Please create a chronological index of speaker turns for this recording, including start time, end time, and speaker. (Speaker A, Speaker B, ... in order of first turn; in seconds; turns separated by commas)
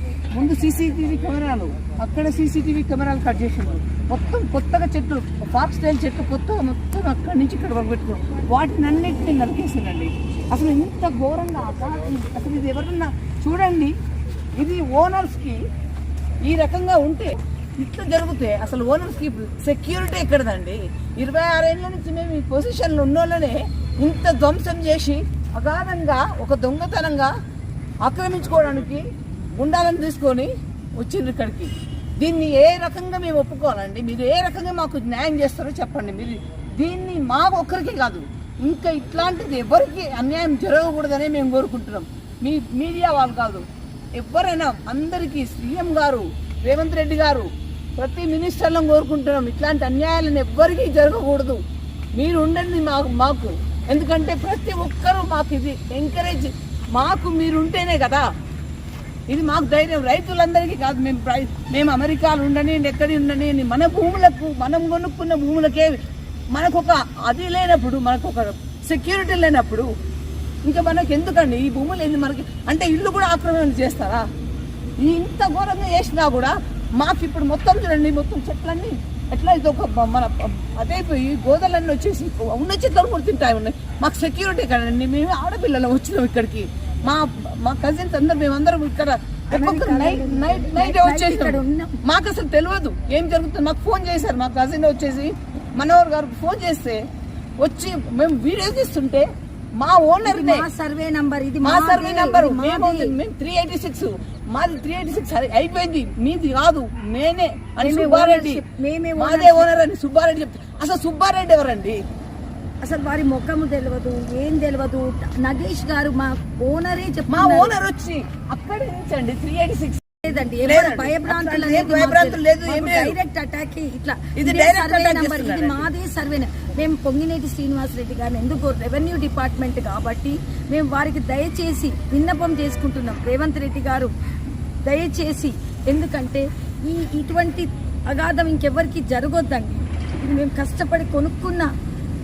Speaker A: 0.3-13.9, Speaker A: 14.6-15.6, Speaker A: 16.4-27.3, Speaker A: 28.0-51.6, Speaker A: 52.2-58.3, Speaker A: 59.3-66.0, Speaker A: 66.5-69.9, Speaker A: 70.7-74.3, Speaker A: 75.0-97.0, Speaker B: 89.5-92.0, Speaker A: 97.6-100.7, Speaker B: 100.2-103.2, Speaker A: 101.6-108.6, Speaker B: 107.8-109.7, Speaker A: 109.2-112.0, Speaker B: 112.8-117.7, Speaker A: 117.3-123.2, Speaker B: 120.2-134.1, Speaker A: 124.4-125.9, Speaker B: 134.8-141.7